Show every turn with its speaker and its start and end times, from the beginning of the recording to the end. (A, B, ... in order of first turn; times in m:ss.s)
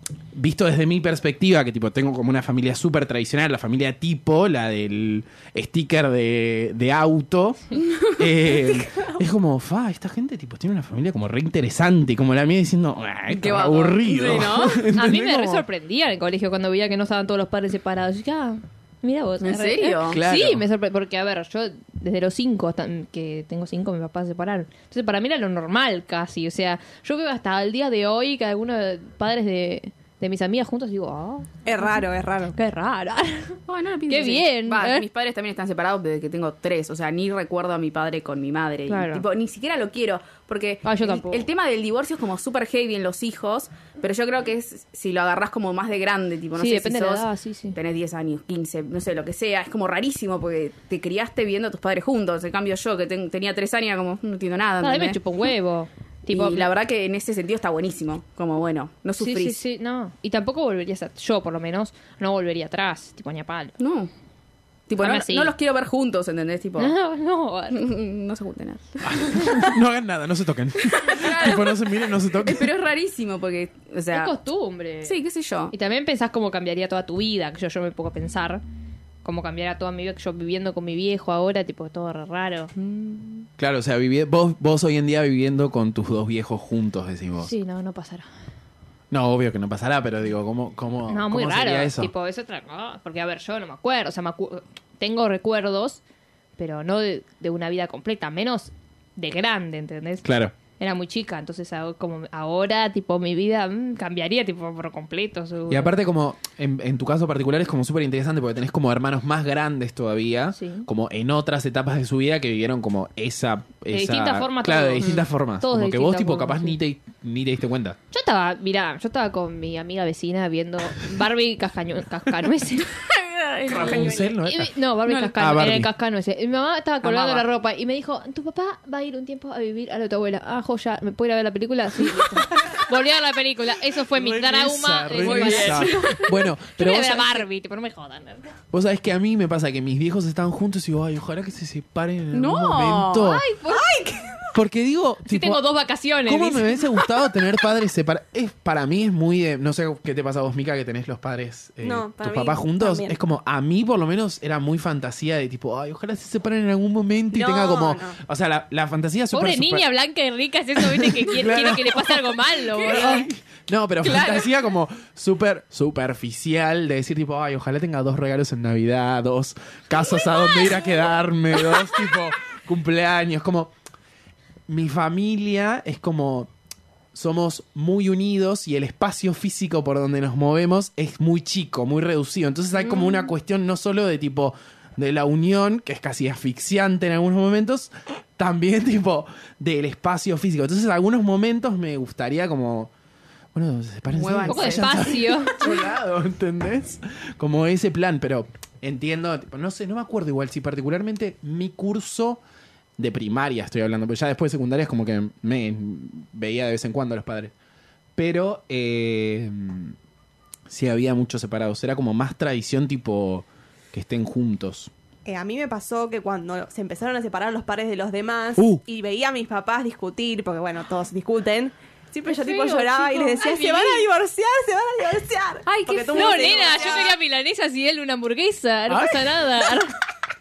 0:00.3-0:15.6 A
0:07.8-0:08.8 B
0:13.3-0:14.9 B
0:14.9-0:35.0 C
0:19.4-0:20.2 B
0:20.1-0:20.6 A
0:31.6-0:32.6 D
0:33.7-0:55.2 B
0:38.9-0:39.2 C
0:40.8-0:41.4 C
0:46.6-0:47.8 C
0:54.8-0:56.7 C
0:56.3-0:59.6 B
0:59.2-1:03.7 C
1:03.8-1:04.1 B
1:04.9-1:06.9 B
1:05.0-1:05.5 C
1:06.8-1:07.9 C
1:07.7-1:09.6 B
1:09.0-1:12.7 A
1:10.9-1:14.3 B
1:14.1-1:15.2 C
1:15.0-1:15.7 B
1:15.7-1:18.6 C
1:19.2-1:22.7 C
1:22.8-1:23.5 B
1:23.6-1:27.5 A
1:27.4-1:28.3 C
1:29.1-1:32.1 A
1:31.1-1:36.0 C
1:36.6-1:40.2 C
1:40.2-1:40.5 A
1:40.8-1:45.9 C
1:45.7-1:58.0 A
1:50.6-1:50.9 C
1:53.9-1:56.8 C
1:58.1-2:02.9 C
2:02.9-2:04.3 B
2:03.7-2:04.8 A
2:03.8-2:18.5 C
2:05.0-2:05.3 B
2:05.3-2:05.9 A
2:07.0-2:07.4 B
2:14.1-2:17.4 A
2:15.2-2:16.3 B
2:18.7-2:23.4 A
2:22.3-2:23.4 B
2:23.2-2:23.9 C
2:23.7-2:24.5 D
2:24.5-2:25.6 A
2:25.2-2:26.8 C
2:26.2-2:39.8 A
2:31.8-2:33.2 D
2:37.3-2:38.2 D
2:39.3-2:43.3 C
2:40.8-2:53.7 A
2:42.8-2:43.2 B
2:44.0-2:44.5 B
2:54.7-2:56.5 A
2:57.1-3:12.9 A
3:03.0-3:03.3 C
3:13.5-3:22.4 A
3:14.1-3:15.0 B
3:14.5-3:15.6 C
3:23.0-3:27.5 A
3:28.2-3:30.0 A
3:30.7-3:34.9 A
3:35.2-3:47.1 D
3:38.6-3:38.8 A
3:42.3-3:43.8 B
3:43.4-3:44.1 C
3:45.6-3:47.1 B
3:46.1-3:50.0 C
3:48.9-3:49.3 A